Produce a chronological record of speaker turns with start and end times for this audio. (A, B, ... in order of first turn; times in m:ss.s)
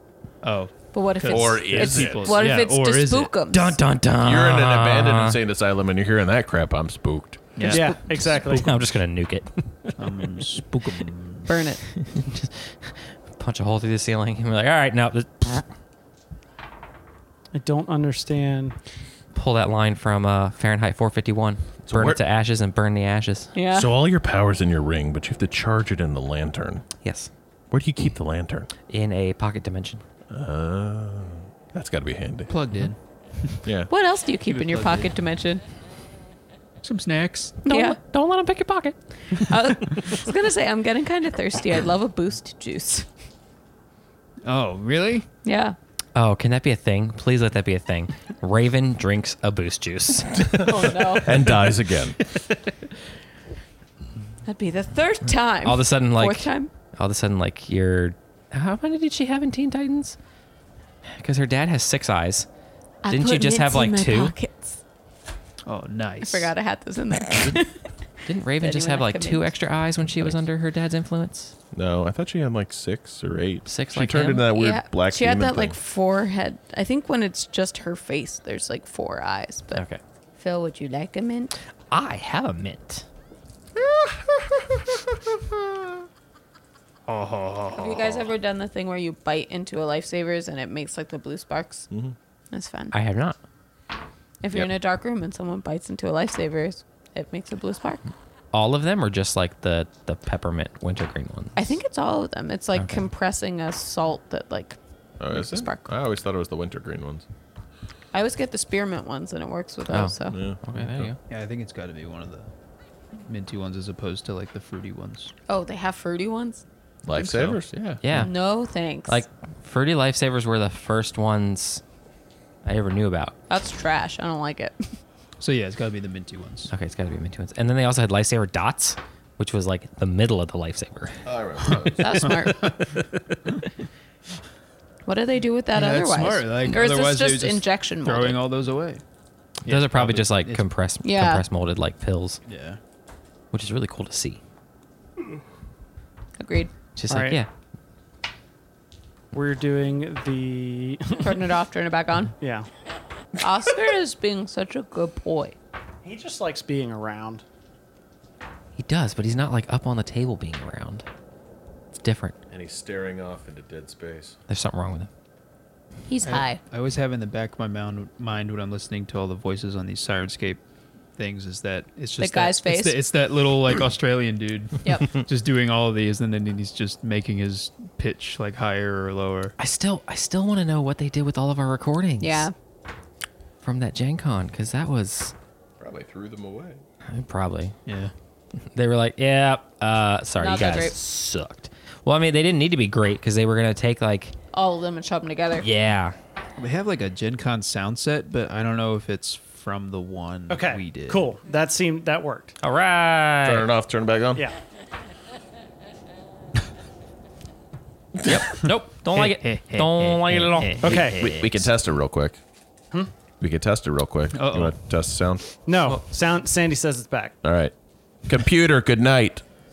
0:00.4-0:03.3 A
0:00.9-0:03.8 B
0:01.3-0:02.3 C
0:03.5-0:05.4 D
0:04.2-0:07.6 C
0:07.6-0:07.9 A
0:07.6-0:08.8 E
0:08.1-0:10.6 D
0:10.0-0:11.6 A
0:11.4-0:11.8 B
0:11.9-0:15.7 D
0:17.5-0:18.8 E
0:19.3-0:23.5 D
0:21.9-0:22.2 C
0:23.5-0:23.9 B
0:23.7-0:26.8 C
0:27.0-0:27.3 D
0:27.7-0:28.7 C
0:28.9-0:30.0 D
0:30.3-0:32.5 C
0:32.5-0:33.7 A
0:33.6-0:33.9 C
0:33.9-0:35.6 B
0:34.4-0:35.1 A
0:36.8-0:37.6 A
0:37.6-0:39.0 D
0:37.7-0:38.0 B
0:39.4-0:43.0 B
0:44.4-0:45.3 A
0:45.4-0:45.8 B
0:46.1-0:50.8 D
0:50.6-0:51.4 B
0:51.2-0:52.2 C
0:54.4-0:56.7 B
0:55.6-1:00.2 D
1:01.1-1:02.5 D
1:03.0-1:04.8 B
1:03.1-1:04.3 D
1:05.6-1:06.5 A
1:06.2-1:07.9 B
1:08.2-1:11.5 D
1:08.6-1:09.5 B
1:11.7-1:15.7 C
1:13.7-1:14.5 D
1:14.5-1:19.8 B
1:19.7-1:20.0 D
1:20.4-1:21.6 B
1:21.9-1:23.0 D
1:27.1-1:27.8 A
1:27.7-1:31.9 B
1:31.9-1:32.2 C
1:32.5-1:32.9 B
1:32.9-1:33.4 D
1:34.4-1:38.0 B
1:38.5-1:41.6 D
1:41.6-1:44.8 B
1:42.8-1:43.1 D
1:45.2-1:47.2 C
1:45.3-1:45.9 B
1:48.1-1:50.4 B
1:49.9-1:51.2 D
1:50.3-1:51.1 C
1:51.3-1:52.5 A
1:53.2-1:55.3 A
1:55.5-1:56.6 B
1:57.0-1:58.0 C
1:57.1-1:58.3 D
1:58.1-1:59.2 B
1:59.1-2:01.8 D
2:02.6-2:03.3 D
2:03.5-2:04.8 B
2:05.4-2:06.7 A
2:06.7-2:13.0 D
2:11.2-2:12.1 C
2:12.0-2:12.7 B
2:12.4-2:12.7 A
2:15.0-2:18.4 B
2:15.7-2:19.0 A
2:19.6-2:20.6 A
2:19.6-2:22.4 D
2:21.0-2:21.4 B
2:22.4-2:22.8 A
2:23.5-2:24.4 D
2:26.4-2:26.7 B
2:27.0-2:27.5 D
2:27.1-2:27.4 E
2:29.3-2:31.5 E
2:31.2-2:32.3 B
2:32.4-2:32.7 E
2:33.4-2:35.5 B
2:36.0-2:37.4 E
2:38.8-2:41.0 D
2:41.9-2:42.4 D
2:42.5-2:44.4 C
2:44.5-2:45.1 D
2:46.1-2:46.6 B
2:46.2-2:50.6 A
2:51.2-2:59.5 A
2:52.2-2:53.0 B
2:54.8-2:55.1 B
2:59.6-3:02.5 D
3:02.2-3:02.5 B
3:03.6-3:05.3 D
3:05.8-3:06.8 C
3:07.1-3:07.7 D
3:07.8-3:08.1 A
3:08.7-3:14.3 D
3:10.4-3:11.0 B
3:14.5-3:15.7 B
3:15.6-3:16.1 D
3:16.6-3:21.3 A
3:20.5-3:22.6 E
3:22.6-3:23.7 D
3:23.4-3:24.4 C
3:28.2-3:31.3 D
3:29.1-3:31.7 A
3:30.8-3:31.2 E
3:30.9-3:32.4 C
3:33.4-3:35.4 C
3:34.3-3:34.8 A
3:35.6-3:37.4 E
3:37.4-3:37.7 C
3:38.2-3:39.4 C